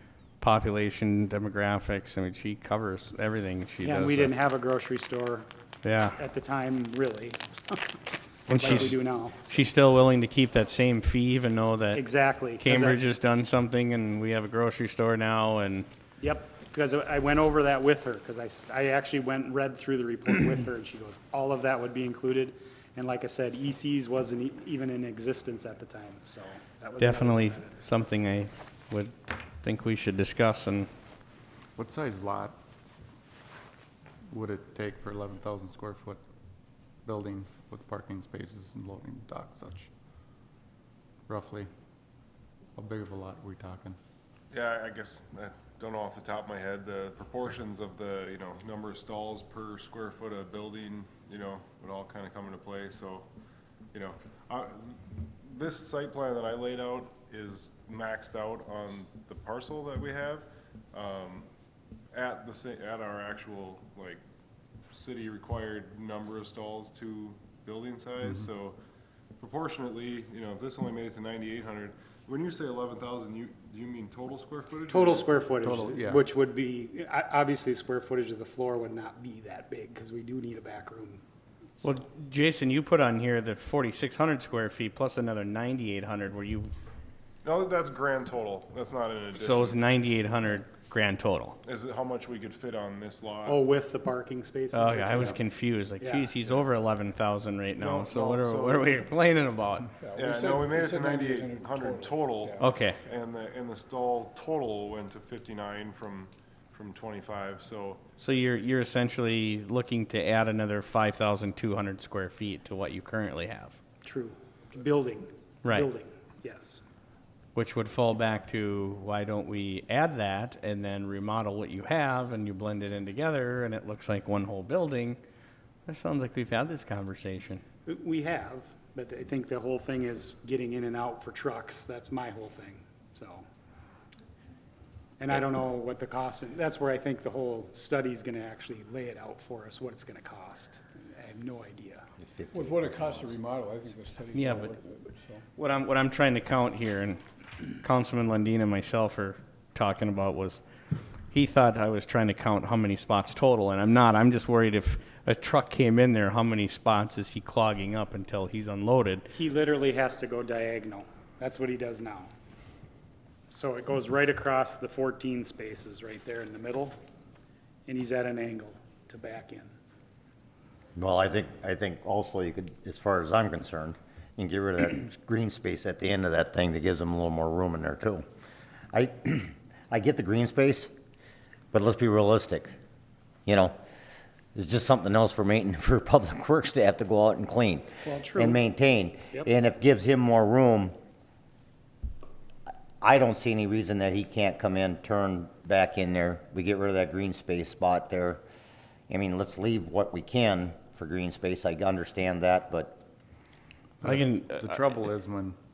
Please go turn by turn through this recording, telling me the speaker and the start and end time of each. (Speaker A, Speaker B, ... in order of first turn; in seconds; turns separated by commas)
Speaker A: 0.4-4.3, Speaker B: 3.8-5.5, Speaker A: 5.8-6.2, Speaker B: 6.2-9.6, Speaker A: 8.5-12.0, Speaker B: 11.9-13.0, Speaker A: 12.6-15.9, Speaker B: 16.2-27.7, Speaker A: 27.0-30.9, Speaker C: 31.8-32.6, Speaker C: 34.3-36.2, Speaker C: 37.0-39.9, Speaker C: 41.3-41.7, Speaker C: 42.8-44.0, Speaker D: 44.5-53.3, Speaker D: 53.9-61.5, Speaker D: 62.1-64.2, Speaker D: 64.9-68.8, Speaker C: 68.2-68.5, Speaker D: 69.4-75.4, Speaker B: 74.9-81.2, Speaker C: 75.6-76.3, Speaker A: 81.8-86.7, Speaker D: 87.4-89.8, Speaker A: 89.4-91.6, Speaker D: 91.6-93.6, Speaker B: 93.4-95.4, Speaker A: 94.7-99.9, Speaker B: 96.0-96.3, Speaker D: 97.8-99.0, Speaker E: 100.0-103.1, Speaker D: 100.1-108.0, Speaker A: 102.6-103.0, Speaker A: 108.2-113.8, Speaker B: 114.0-116.8, Speaker A: 117.5-125.2, Speaker A: 125.8-127.6, Speaker B: 127.8-133.4, Speaker B: 135.2-142.1, Speaker F: 142.2-143.4, Speaker E: 142.5-145.4, Speaker A: 144.3-144.8, Speaker A: 145.6-147.2, Speaker A: 147.8-150.6, Speaker A: 151.3-159.3, Speaker B: 159.3-162.3, Speaker B: 163.5-167.0, Speaker B: 167.9-169.7, Speaker F: 170.9-178.2, Speaker F: 178.9-180.9, Speaker F: 181.7-182.7, Speaker F: 183.4-183.8, Speaker F: 184.5-190.9, Speaker B: 188.0-188.6, Speaker F: 193.0-198.4, Speaker F: 199.1-203.0, Speaker A: 204.0-204.8, Speaker C: 204.0-205.6